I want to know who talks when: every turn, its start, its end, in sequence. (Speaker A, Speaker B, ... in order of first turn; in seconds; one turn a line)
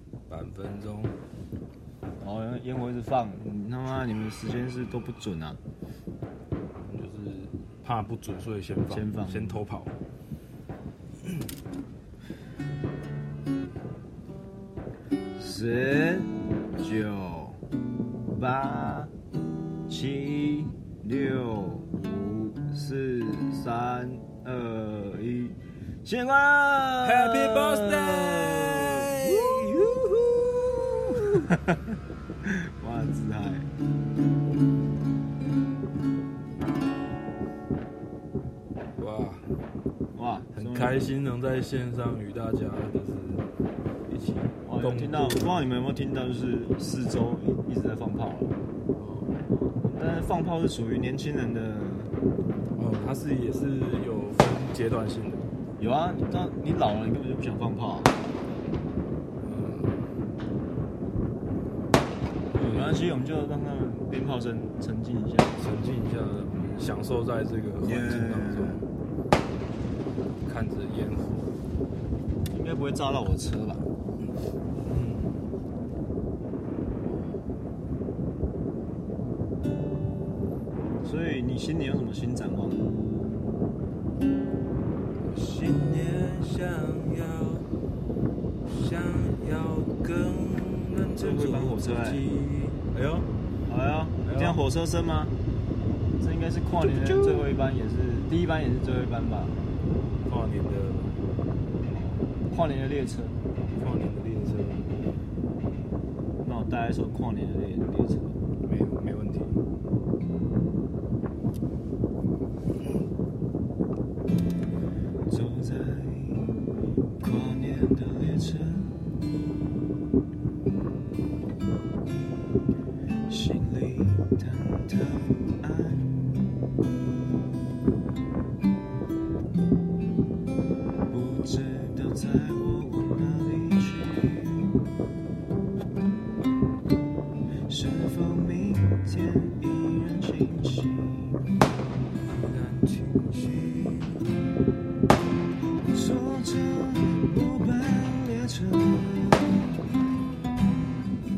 Speaker A: 0.3-1.2
Speaker B: 2.2-5.6
Speaker A: 6.8-10.0
Speaker B: 8.9-9.6
Speaker B: 15.4-17.6
Speaker B: 18.3-19.1
Speaker B: 19.9-29.4
Speaker A: 27.0-31.5
Speaker B: 31.5-33.7
Speaker A: 39.0-39.5
Speaker B: 40.1-41.1
Speaker A: 40.5-43.5
Speaker A: 44.1-45.6
Speaker B: 44.6-48.5
Speaker A: 49.0-49.4
Speaker B: 49.6-52.1
Speaker A: 52.7-55.5
Speaker B: 55.8-58.1
Speaker A: 59.4-60.1
Speaker A: 62.5-63.1
Speaker B: 62.6-65.6
Speaker A: 65.5-68.9
Speaker B: 67.8-68.8
Speaker A: 70.4-71.5
Speaker B: 72.5-73.9
Speaker A: 74.8-75.4
Speaker A: 77.0-77.5
Speaker B: 81.0-82.9
Speaker A: 85.3-87.7
Speaker A: 88.7-93.3
Speaker B: 91.1-92.3
Speaker B: 93.7-95.3
Speaker A: 94.2-94.6
Speaker B: 96.2-99.6
Speaker A: 96.9-97.5
Speaker A: 100.2-101.1
Speaker B: 101.9-103.4
Speaker A: 103.7-105.0
Speaker B: 106.4-108.4
Speaker A: 108.6-109.6
Speaker B: 115.3-116.5
Speaker B: 117.2-119.3
Speaker B: 123.3-126.3
Speaker B: 131.1-134.9
Speaker B: 137.7-141.5
Speaker A: 142.2-144.3
Speaker B: 145.9-149.8